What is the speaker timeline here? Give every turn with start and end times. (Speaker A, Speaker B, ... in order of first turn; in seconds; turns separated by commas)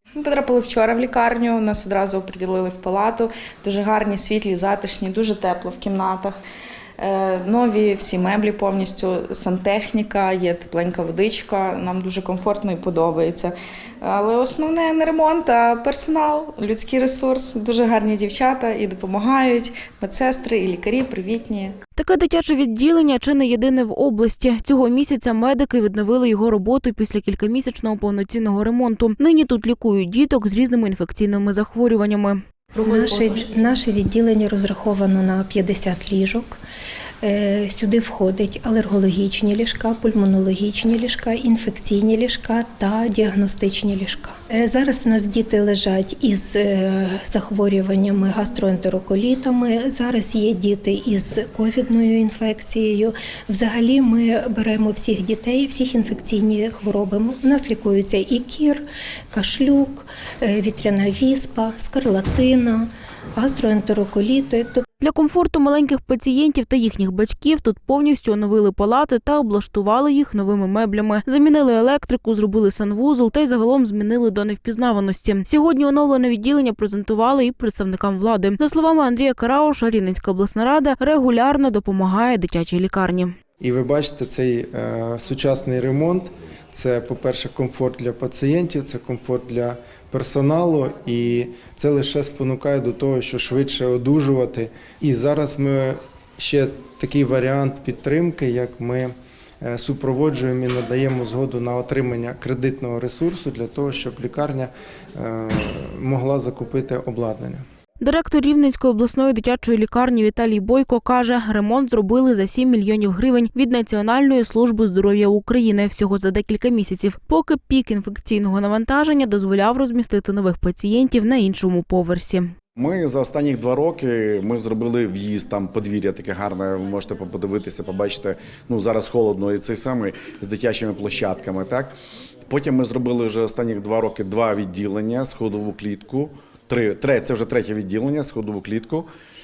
Speaker A: 0.2-6.4, Speaker A: 7.0-21.7, Speaker B: 21.9-33.5, Speaker C: 32.8-36.6, Speaker C: 37.2-64.8, Speaker B: 65.0-83.3, Speaker D: 83.6-107.6, Speaker B: 108.0-122.5, Speaker E: 122.8-131.9, Speaker E: 132.5-139.1